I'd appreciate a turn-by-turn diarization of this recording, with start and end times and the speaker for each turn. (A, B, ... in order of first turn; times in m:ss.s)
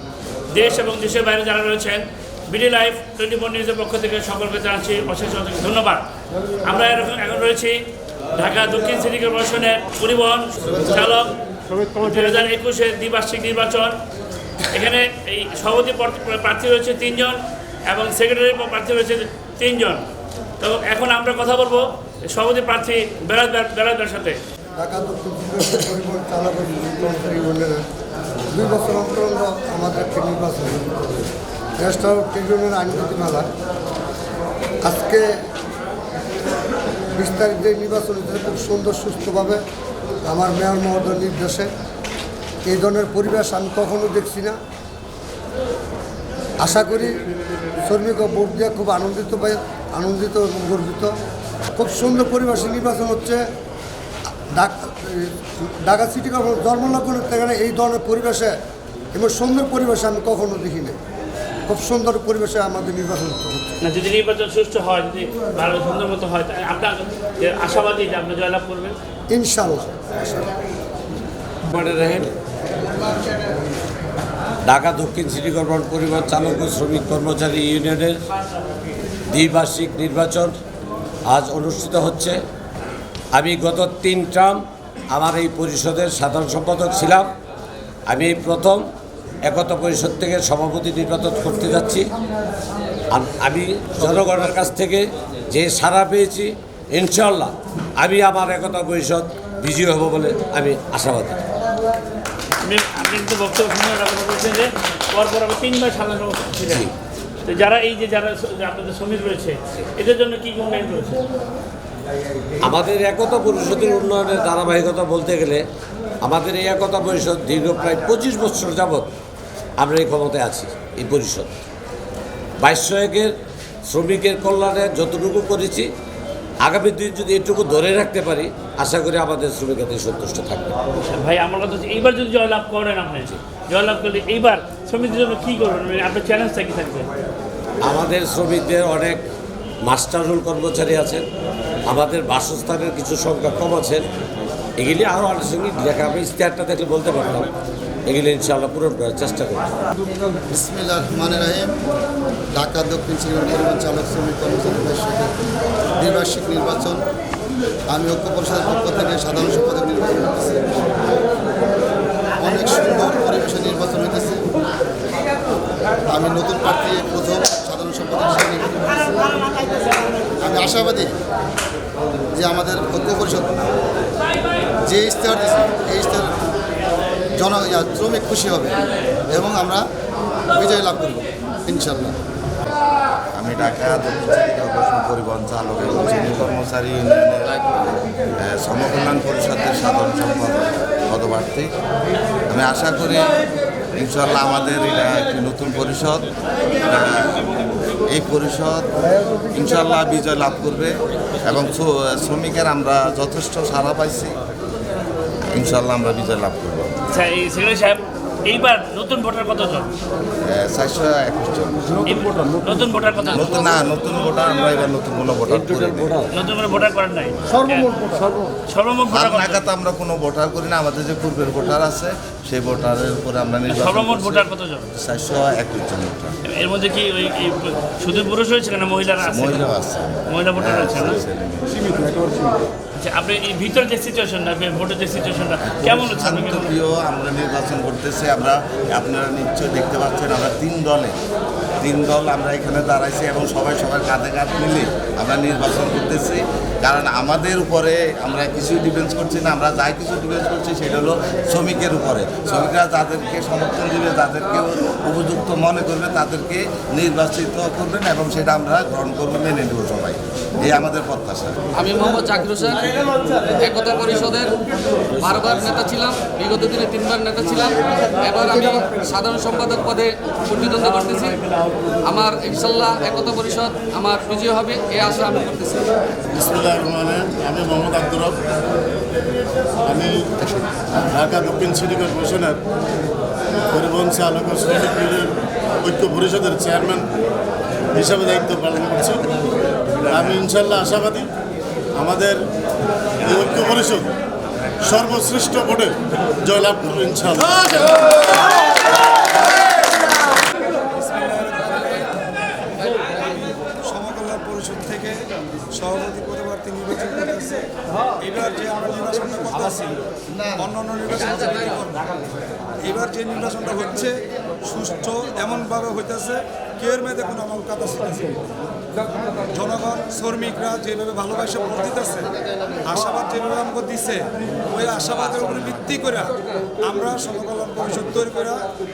0:00.5-0:06.1 A
0:06.6-0:11.3 A
0:11.9-0:14.0 A
0:14.7-0:20.0 A
0:20.6-0:24.4 A
0:24.8-0:27.8 B
0:28.5-0:31.0 B
0:31.8-0:33.5 B
0:34.8-0:35.4 B
0:37.1-0:39.6 B
0:40.2-0:41.7 B
0:42.6-0:44.6 B
0:46.6-0:47.2 B
0:47.8-0:51.1 B
0:51.7-0:53.4 B
0:54.5-0:58.5 B
0:59.1-1:01.0 B
1:01.7-1:03.8 B
1:03.8-1:09.0 A
1:09.3-1:10.5 B
1:11.7-1:12.3 C
1:14.6-1:18.2 C
1:19.3-1:20.5 C
1:21.3-1:22.4 C
1:23.3-1:27.3 C
1:28.1-1:28.8 C
1:29.4-1:32.1 C
1:33.1-1:41.4 C
1:42.6-1:46.9 A
1:47.4-1:51.2 A
1:52.6-1:55.6 C
1:56.2-1:59.1 C
1:59.8-2:01.5 C
2:02.6-2:03.3 C
2:03.9-2:05.9 C
2:06.6-2:10.8 C
2:11.1-2:17.1 A
2:17.8-2:19.2 C
2:19.8-2:21.3 C
2:21.9-2:24.1 C
2:24.8-2:27.5 C
2:28.1-2:29.7 C
2:30.5-2:31.7 D
2:32.5-2:35.3 D
2:36.0-2:37.0 D
2:37.9-2:40.7 D
2:42.4-2:44.4 D
2:46.1-2:49.2 D
2:50.4-2:51.1 D
2:52.3-2:53.5 D
2:54.8-2:56.3 D
2:57.4-2:59.8 D
3:00.5-3:02.2 D
3:03.3-3:07.7 E
3:08.4-3:11.7 E
3:12.5-3:13.4 E
3:13.9-3:16.3 E
3:16.8-3:17.4 E
3:18.1-3:18.9 E
3:19.5-3:24.4 E
3:25.5-3:26.9 E
3:27.1-3:29.9 A
3:30.4-3:32.0 E
3:32.0-3:33.8 A
3:33.3-3:36.1 E
3:35.5-3:36.3 C
3:36.3-3:37.9 A
3:37.7-3:38.3 B
3:38.7-3:39.6 A
3:39.1-3:44.4 E
3:43.7-3:44.9 A
3:45.0-3:46.3 E
3:46.4-3:49.7 A
3:49.2-3:52.1 E
3:50.3-3:51.2 A
3:53.0-3:56.8 A
3:55.7-4:01.1 E
4:01.8-4:21.6 E
4:21.8-4:24.6 F
4:25.2-4:36.0 F
4:36.3-4:38.4 G
4:39.8-4:42.6 G
4:43.7-4:47.1 G
4:47.9-4:51.3 G
4:52.0-4:52.4 G
4:53.2-4:54.1 G
4:54.8-4:58.2 G
5:00.9-5:02.0 H
5:03.2-5:05.2 H
5:05.7-5:07.6 H
5:08.2-5:10.0 H
5:10.5-5:12.1 H
5:12.8-5:18.4 H
5:19.5-5:22.3 H
5:22.8-5:26.3 H
5:26.8-5:28.6 H